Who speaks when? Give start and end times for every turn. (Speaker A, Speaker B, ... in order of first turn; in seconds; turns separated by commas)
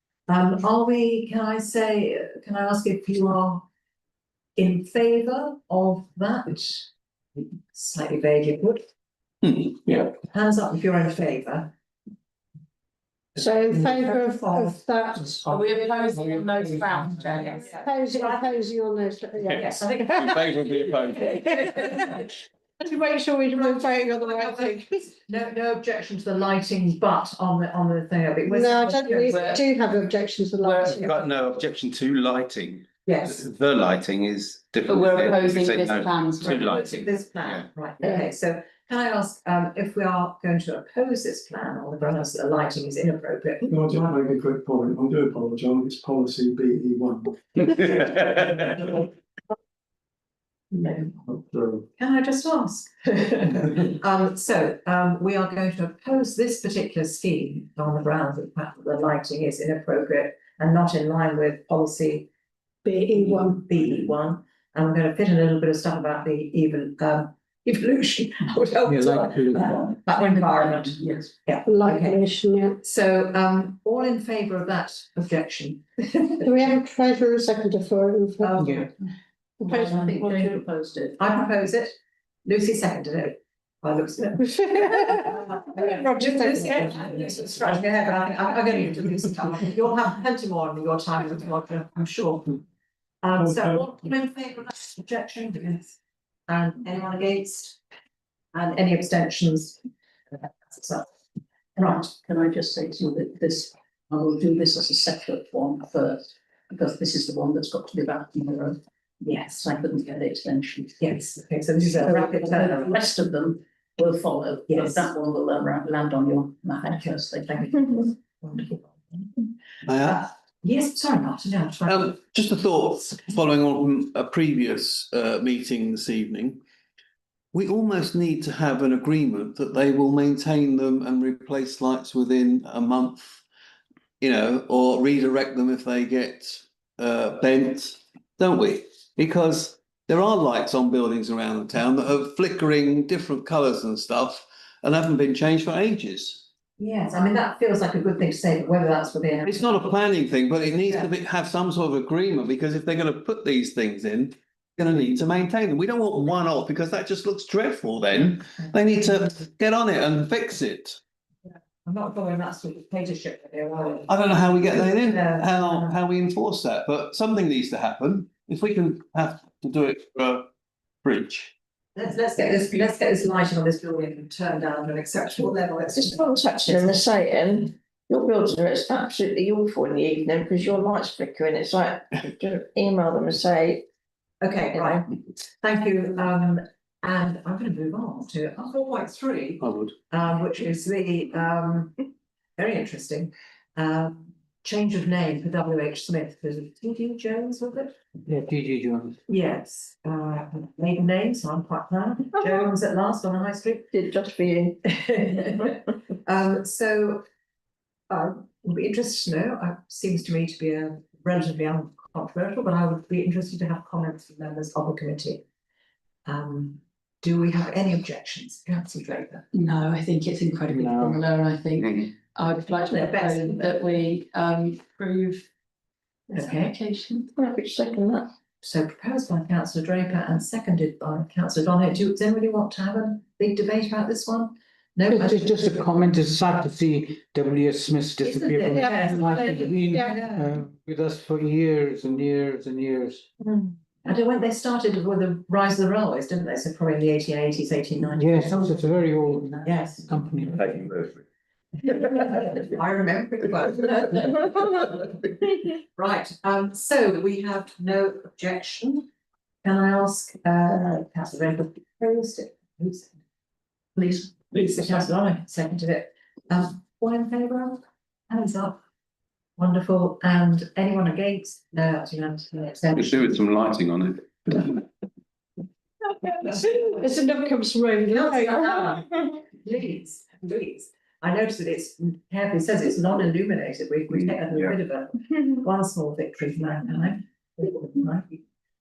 Speaker A: 0.3-3.7, Speaker A: 4.6-6.9, Speaker A: 7.7-8.8, Speaker A: 9.8-11.7, Speaker B: 13.4-16.1, Speaker A: 14.1-14.7, Speaker C: 15.5-17.6, Speaker B: 17.5-20.4, Speaker A: 17.6-18.5, Speaker A: 19.5-20.5, Speaker D: 20.4-21.4, Speaker A: 21.5-22.2, Speaker A: 22.9-29.6, Speaker B: 22.9-24.9, Speaker B: 28.5-31.1, Speaker C: 29.3-29.6, Speaker C: 30.6-31.1, Speaker D: 31.0-37.7, Speaker A: 33.1-33.4, Speaker C: 34.8-36.6, Speaker A: 36.4-44.2, Speaker E: 43.7-47.8, Speaker A: 48.8-49.1, Speaker E: 51.3-51.8, Speaker A: 52.0-62.3, Speaker B: 62.9-63.6, Speaker A: 63.1-72.3, Speaker F: 68.8-69.9, Speaker G: 70.2-71.3, Speaker B: 71.7-72.8, Speaker A: 72.8-76.7, Speaker B: 76.4-78.6, Speaker A: 78.4-78.9, Speaker F: 78.6-78.9, Speaker G: 79.6-81.5, Speaker A: 79.7-80.5, Speaker A: 81.2-92.6, Speaker B: 84.5-86.5, Speaker A: 93.2-97.8, Speaker A: 98.5-99.8, Speaker A: 100.4-101.1, Speaker G: 101.8-111.2, Speaker A: 101.8-102.1, Speaker A: 109.2-109.6, Speaker A: 111.0-113.0, Speaker G: 111.8-117.9, Speaker A: 114.7-115.1, Speaker A: 117.0-119.4, Speaker H: 119.9-120.3, Speaker A: 120.1-122.2, Speaker H: 121.9-126.6, Speaker H: 127.5-133.4, Speaker H: 134.2-146.4, Speaker A: 146.8-149.9, Speaker H: 149.4-161.0, Speaker A: 150.8-151.1, Speaker A: 161.8-164.1, Speaker H: 164.1-170.5, Speaker A: 164.7-166.0, Speaker H: 171.0-171.5, Speaker A: 171.9-177.1, Speaker I: 176.1-183.8, Speaker A: 184.4-192.0, Speaker I: 184.7-185.0, Speaker H: 189.6-189.9, Speaker A: 192.6-198.0, Speaker F: 198.3-199.2, Speaker A: 199.3-203.9, Speaker I: 203.9-204.8, Speaker A: 204.9-207.2, Speaker A: 208.1-215.4, Speaker A: 216.3-219.5, Speaker C: 219.5-225.5, Speaker F: 220.7-221.2, Speaker D: 221.8-222.1, Speaker A: 222.7-223.8, Speaker A: 226.3-226.8, Speaker C: 226.3-227.3, Speaker I: 227.4-228.3, Speaker A: 228.6-236.3, Speaker F: 235.1-243.2, Speaker A: 238.2-240.5, Speaker B: 238.8-240.2, Speaker A: 243.4-250.6, Speaker F: 248.0-250.8, Speaker D: 250.7-251.2, Speaker A: 251.8-259.1, Speaker A: 259.6-263.2, Speaker G: 264.0-264.4, Speaker A: 264.5-268.8, Speaker A: 269.6-273.4, Speaker D: 272.9-274.8, Speaker B: 276.4-278.9, Speaker A: 278.1-288.4, Speaker D: 284.1-284.8